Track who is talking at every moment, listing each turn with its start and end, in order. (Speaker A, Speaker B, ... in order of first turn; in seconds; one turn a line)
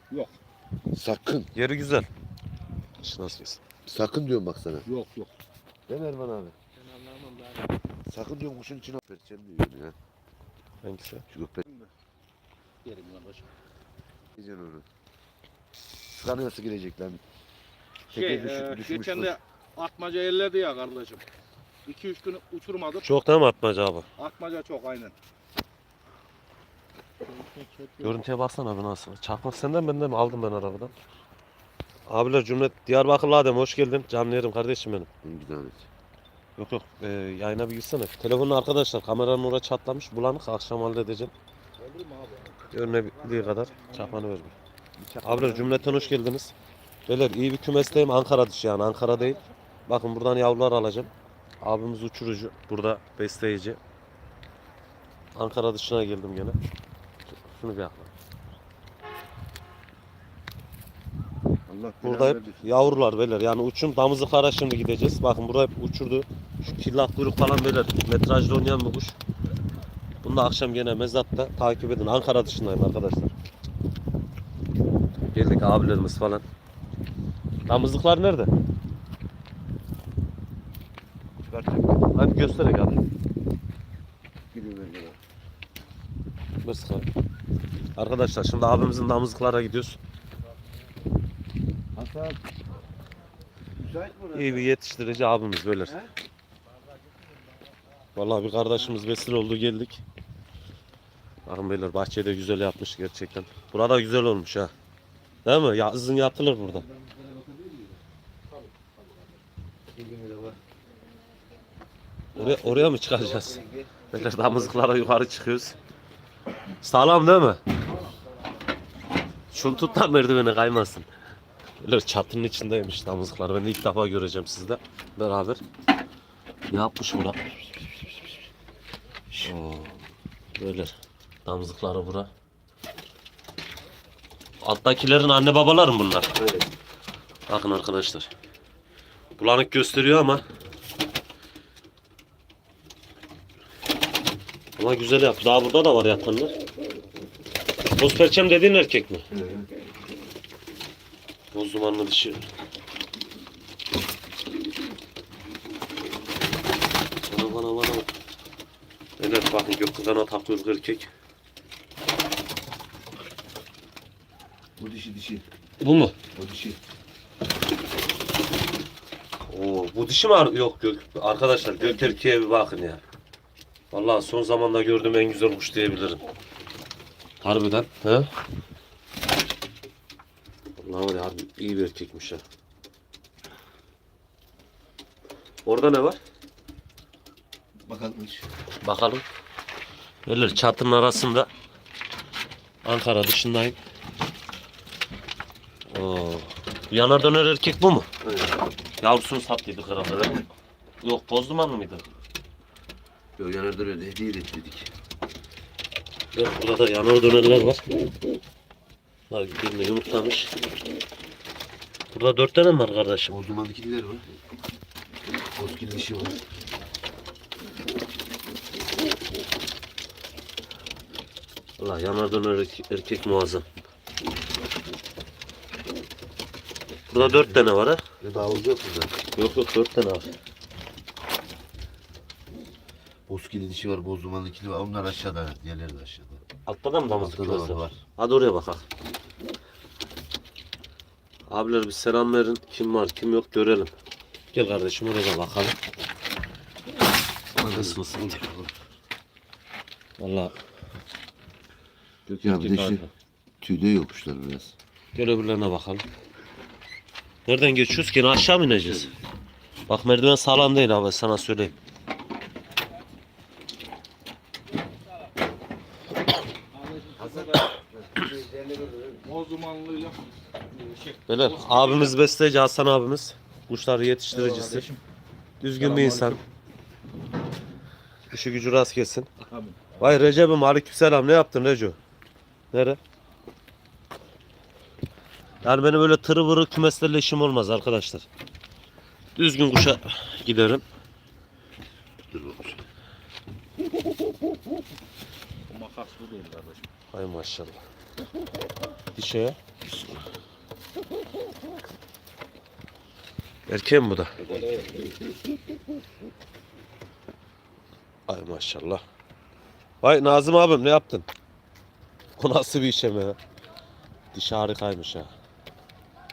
Speaker A: 0.9-1.5
Speaker B: 1.5-2.1
Speaker B: 3.0-3.6
Speaker A: 3.9-4.9
Speaker C: 4.8-5.3
Speaker A: 5.9-6.5
Speaker C: 6.9-7.7
Speaker A: 8.1-9.9
Speaker B: 10.8-11.2
Speaker A: 11.3-11.7
Speaker C: 12.8-13.5
Speaker A: 14.4-14.8
Speaker A: 16.2-17.2
Speaker A: 18.1-19.4
Speaker C: 18.1-21.2
Speaker C: 21.9-23.1
Speaker B: 23.0-24.1
Speaker C: 24.2-25.1
Speaker C: 27.3-28.2
Speaker B: 28.0-30.9
Speaker B: 32.1-35.1
Speaker A: 35.2-35.9
Speaker B: 36.6-41.3
Speaker C: 41.8-44.5
Speaker B: 42.7-44.5
Speaker A: 45.0-46.0
Speaker B: 45.2-46.5
Speaker B: 47.1-53.8
Speaker C: 49.1-49.5
Speaker B: 55.4-56.6
Speaker B: 57.3-58.1
Speaker A: 61.7-63.0
Speaker B: 62.0-69.2
Speaker B: 70.2-73.3
Speaker B: 75.3-76.4
Speaker B: 77.7-78.5
Speaker A: 81.5-82.0
Speaker B: 82.1-83.0
Speaker A: 84.5-85.2
Speaker B: 86.6-87.1
Speaker B: 88.0-90.0
Speaker A: 92.0-92.4
Speaker A: 93.8-94.7
Speaker B: 94.3-96.0
Speaker B: 98.2-100.0
Speaker B: 101.5-104.7
Speaker B: 105.5-106.8
Speaker A: 106.9-107.9
Speaker A: 109.9-110.6
Speaker B: 112.3-113.6
Speaker A: 112.3-114.8
Speaker B: 114.1-115.8
Speaker B: 116.8-117.6
Speaker B: 119.5-121.1
Speaker B: 121.8-125.6
Speaker B: 126.7-127.5
Speaker B: 129.3-130.0
Speaker B: 130.6-132.3
Speaker B: 134.6-136.4
Speaker A: 136.4-136.7
Speaker B: 137.5-138.3
Speaker B: 139.4-140.4
Speaker B: 144.8-146.6
Speaker B: 148.0-149.2
Speaker A: 149.3-149.7
Speaker B: 151.5-152.5
Speaker B: 157.3-158.1
Speaker B: 159.2-161.1
Speaker A: 164.8-165.4
Speaker B: 165.8-166.2
Speaker A: 166.3-166.8
Speaker B: 169.5-173.0
Speaker B: 173.9-176.2
Speaker B: 177.4-178.3
Speaker B: 180.8-182.4
Speaker B: 185.7-186.2
Speaker A: 187.9-188.5
Speaker B: 188.8-189.3
Speaker B: 190.3-191.5
Speaker B: 192.8-193.8
Speaker B: 195.9-198.1
Speaker A: 198.2-198.5
Speaker B: 199.0-200.4
Speaker B: 201.0-202.1
Speaker A: 203.4-204.9
Speaker B: 206.3-207.9
Speaker B: 209.3-210.5
Speaker B: 212.1-213.4
Speaker A: 213.3-214.3
Speaker A: 215.6-216.4
Speaker B: 221.8-223.7
Speaker B: 227.1-228.0
Speaker A: 228.2-229.2
Speaker B: 229.3-230.3
Speaker A: 233.3-236.4
Speaker B: 236.7-238.8
Speaker A: 237.1-238.0
Speaker B: 241.5-243.9
Speaker B: 244.5-245.8
Speaker B: 247.6-248.4
Speaker A: 247.7-248.7
Speaker B: 250.2-250.5
Speaker B: 252.3-253.1
Speaker A: 252.4-253.0
Speaker A: 253.6-254.8
Speaker B: 255.1-256.1
Speaker B: 257.5-259.1
Speaker B: 259.9-261.8
Speaker C: 266.7-267.8
Speaker A: 267.2-269.2
Speaker C: 269.2-272.2
Speaker B: 271.3-274.9
Speaker C: 274.3-275.0
Speaker B: 275.6-276.4
Speaker C: 275.8-276.4
Speaker B: 278.3-279.3
Speaker C: 279.5-280.0
Speaker B: 280.0-282.0
Speaker B: 282.7-283.0
Speaker B: 285.6-288.3
Speaker B: 289.4-290.8
Speaker A: 292.3-292.8
Speaker C: 295.7-296.9
Speaker B: 297.1-297.8
Speaker B: 299.1-299.6
Speaker A: 299.9-300.2
Speaker B: 303.7-304.4
Speaker A: 304.4-305.0
Speaker B: 308.3-309.0
Speaker B: 310.0-311.3
Speaker B: 312.4-313.4
Speaker B: 314.3-315.3